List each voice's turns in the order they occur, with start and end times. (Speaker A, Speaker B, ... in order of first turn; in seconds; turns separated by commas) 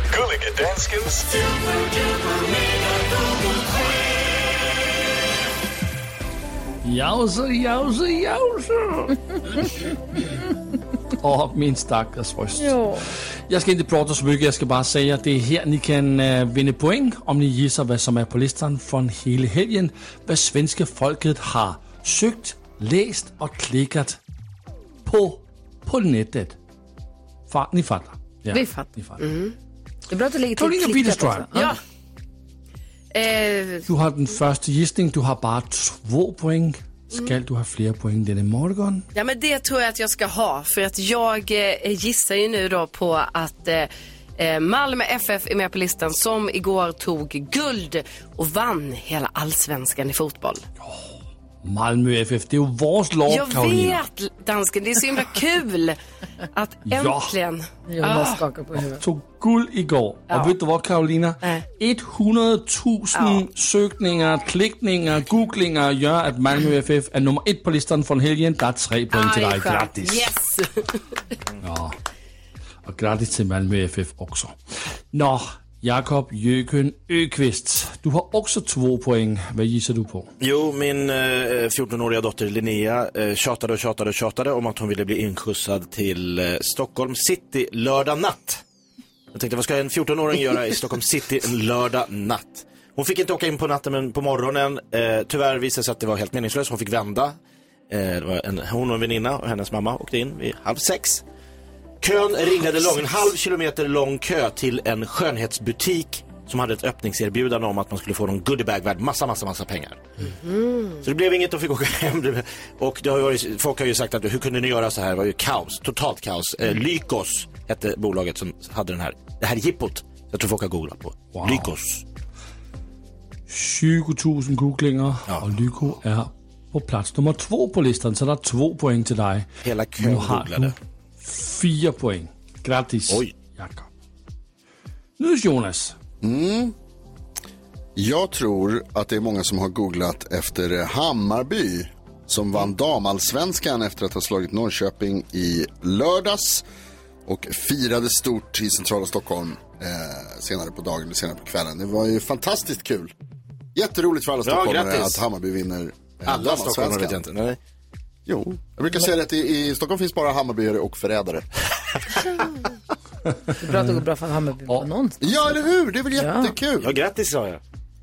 Speaker A: 6.8-9.7, Speaker A: 11.2-24.2, Speaker A: 25.1-26.6, Speaker A: 27.5-29.2, Speaker B: 28.5-28.9, Speaker C: 29.2-29.5, Speaker B: 30.1-31.7, Speaker A: 30.6-31.7, Speaker C: 33.1-33.9, Speaker A: 33.9-39.0, Speaker C: 39.1-50.6, Speaker A: 50.8-54.0, Speaker C: 53.3-56.0, Speaker C: 56.5-58.4, Speaker A: 56.9-57.3, Speaker B: 57.9-59.0, Speaker A: 58.9-70.2, Speaker C: 63.1-63.4, Speaker C: 69.1-71.0, Speaker A: 71.6-71.9, Speaker A: 72.8-74.6, Speaker A: 75.1-80.3, Speaker D: 80.4-88.6, Speaker D: 89.3-97.4, Speaker D: 97.9-101.2, Speaker D: 102.0-110.0, Speaker C: 110.4-110.9, Speaker D: 111.0-122.0, Speaker A: 121.3-121.7, Speaker A: 123.5-133.9, Speaker D: 125.3-125.9, Speaker D: 129.6-130.7, Speaker D: 133.1-133.3, Speaker A: 135.2-135.9, Speaker E: 136.2-136.7, Speaker E: 137.9-146.6, Speaker E: 147.2-153.1, Speaker E: 153.7-157.2, Speaker D: 154.4-155.2, Speaker D: 156.2-157.6, Speaker E: 158.2-161.4, Speaker B: 163.6-165.2, Speaker A: 163.6-164.0, Speaker E: 165.2-166.9, Speaker B: 166.2-166.5, Speaker D: 166.8-167.6